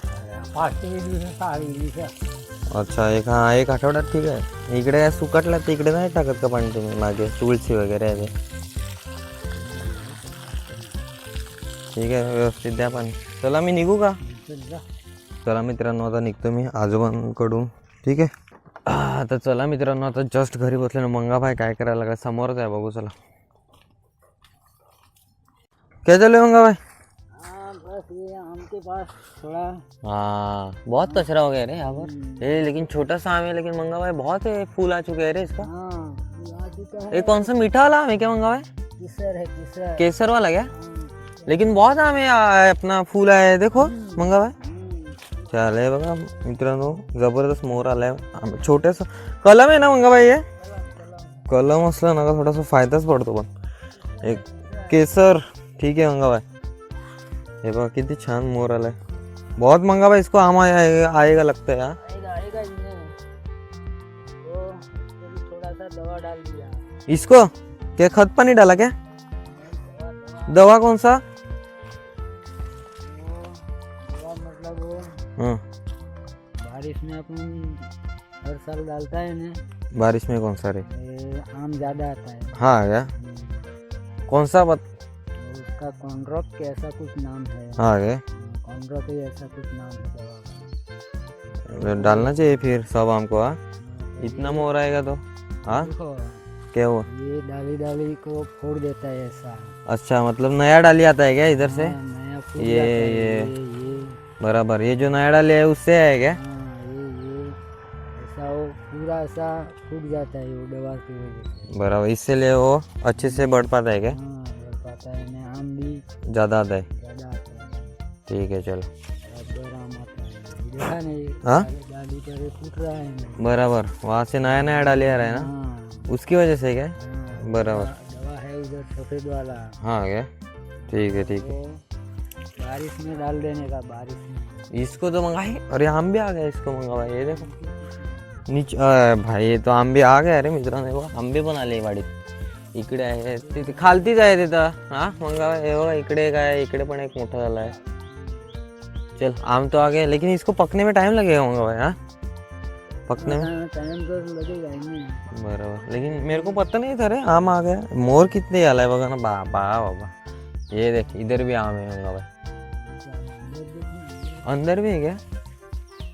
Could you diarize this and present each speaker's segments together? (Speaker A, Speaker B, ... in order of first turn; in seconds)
Speaker A: 0.1-2.2, 9.5-11.1, 14.2-14.8, 27.3-29.8, 31.0-31.2, 31.8-32.6, 35.6-37.5, 39.0-40.1, 40.7-41.7, 43.8-45.2, 50.6-51.5, 54.2-55.0, 62.0-63.2, 64.4-66.9, 69.5-70.7, 73.0-75.2, 76.6-77.8, 78.4-79.6, 80.9-82.6, 83.1-83.7, 85.4-90.7, 91.7-92.5, 93.8-94.7, 95.7-96.4, 97.0-99.7, 101.5-104.2, 106.3-107.6, 108.1-111.7, 113.2-116.0, 116.9-117.9, 119.3-123.5, 124.4-126.1, 127.0-129.8, 130.8-131.8, 132.6-134.7, 137.2-138.5, 143.4-144.0, 148.1-148.5, 153.2-155.3, 162.8-164.5
Speaker B: 2.7-8.3, 11.9-14.2, 15.4-18.3, 18.9-23.1, 26.0-26.8, 30.0-35.7, 37.1-38.7, 40.0-40.7, 41.5-44.5, 45.5-50.4, 51.5-53.5, 54.2-56.4, 57.6-59.0, 59.6-62.0, 67.1-68.9, 70.5-71.2, 75.4-75.6, 79.9-80.8, 82.5-83.1, 84.3-84.8, 87.8-88.2, 91.7-93.6, 94.2-95.9, 96.7-97.0, 99.9-102.0, 102.6-103.5, 104.4-106.4, 111.7-114.2, 116.3-116.9, 118.3-118.9, 121.4-121.7, 123.4-125.5, 126.1-127.9, 129.8-130.3, 130.9-131.5, 134.7-137.5, 138.5-142.1, 142.7-147.7, 149.2-151.9, 153.1-153.5, 155.3-160.1, 160.7-162.3, 164.4-165.2